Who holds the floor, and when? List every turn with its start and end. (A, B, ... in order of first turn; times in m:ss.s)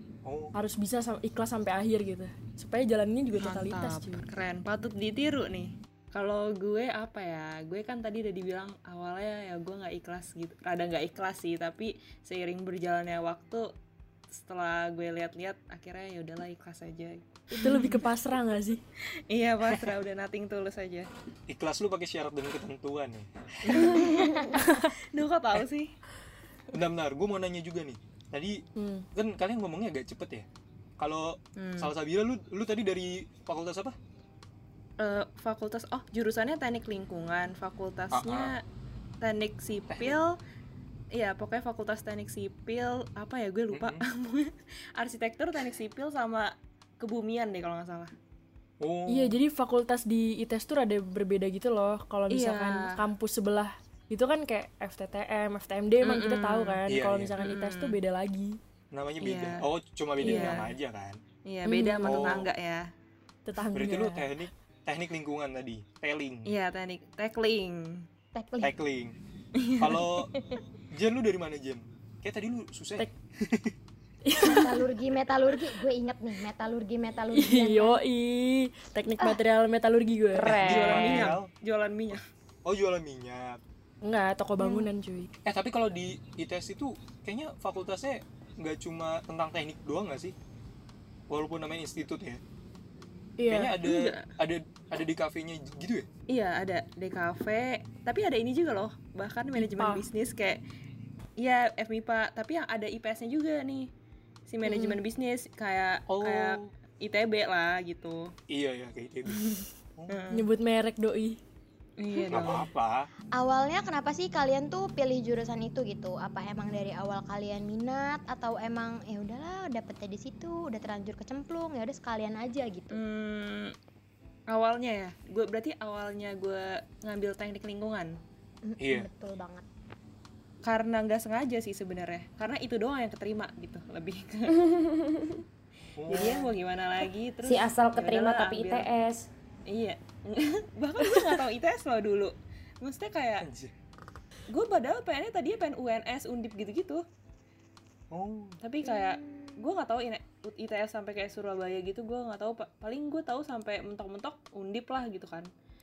0:00.2-0:00.5 A
0:00.5-0:04.3 B
0:03.4-0:13.7 C
0:14.3-0:18.0 C
0:17.5-0:18.8 B
0:19.3-0:21.1 C
0:21.5-0:24.0 A
0:23.7-0:25.9 C
0:24.6-0:24.9 B
0:26.7-0:28.6 A
0:28.8-0:29.1 B
0:29.2-0:30.5 A
0:31.0-0:34.0 A
0:31.6-0:31.9 C
0:35.0-0:38.6 C
0:38.1-0:38.5 A
0:39.2-0:40.4 C
0:39.9-0:40.2 A
0:41.1-0:48.1 C
0:43.7-0:44.0 A
0:48.8-0:49.4 A
0:49.1-0:58.6 B
0:52.3-0:53.0 C
0:56.0-0:56.8 C
0:56.9-0:57.4 A
0:57.4-0:58.0 C
0:58.9-1:01.2 A
0:59.2-0:59.6 C
1:00.2-1:00.6 B
1:00.2-1:00.7 C
1:01.5-1:02.9 C
1:01.6-1:02.4 B
1:02.0-1:02.5 A
1:03.4-1:04.3 B
1:03.7-1:06.5 A
1:06.5-1:08.1 C
1:08.3-1:08.8 D
1:08.6-1:09.2 A
1:09.6-1:09.9 C
1:09.8-1:10.3 A
1:10.9-1:13.8 A
1:14.2-1:14.7 B
1:14.4-1:18.0 D
1:17.3-1:20.6 B
1:20.4-1:21.1 E
1:20.4-1:21.5 A
1:20.6-1:22.2 C
1:22.1-1:23.6 A
1:24.0-1:25.3 B
1:24.6-1:24.9 D
1:25.4-1:30.4 A
1:31.3-1:32.4 A
1:33.4-1:33.8 B
1:33.5-1:36.1 A
1:33.8-1:34.3 C
1:36.3-1:40.6 C
1:39.6-1:40.1 B
1:41.4-1:43.9 C
1:44.5-1:48.3 C
1:44.6-1:45.0 D
1:46.1-1:46.7 A
1:48.5-1:50.2 A
1:49.3-1:50.5 C
1:50.3-1:51.4 B
1:52.0-1:52.7 C
1:52.3-1:53.1 A
1:53.4-2:03.0 D
2:02.9-2:03.8 C
2:04.5-2:08.2 C
2:08.6-2:09.6 D
2:08.8-2:09.1 A
2:10.6-2:14.6 C
2:14.5-2:15.4 E
2:16.0-2:16.5 A
2:16.1-2:18.9 C
2:17.4-2:19.3 E
2:19.7-2:23.5 C
2:23.4-2:23.7 A
2:24.5-2:27.0 C
2:28.1-2:28.6 A
2:28.6-2:35.5 C
2:28.8-2:29.5 D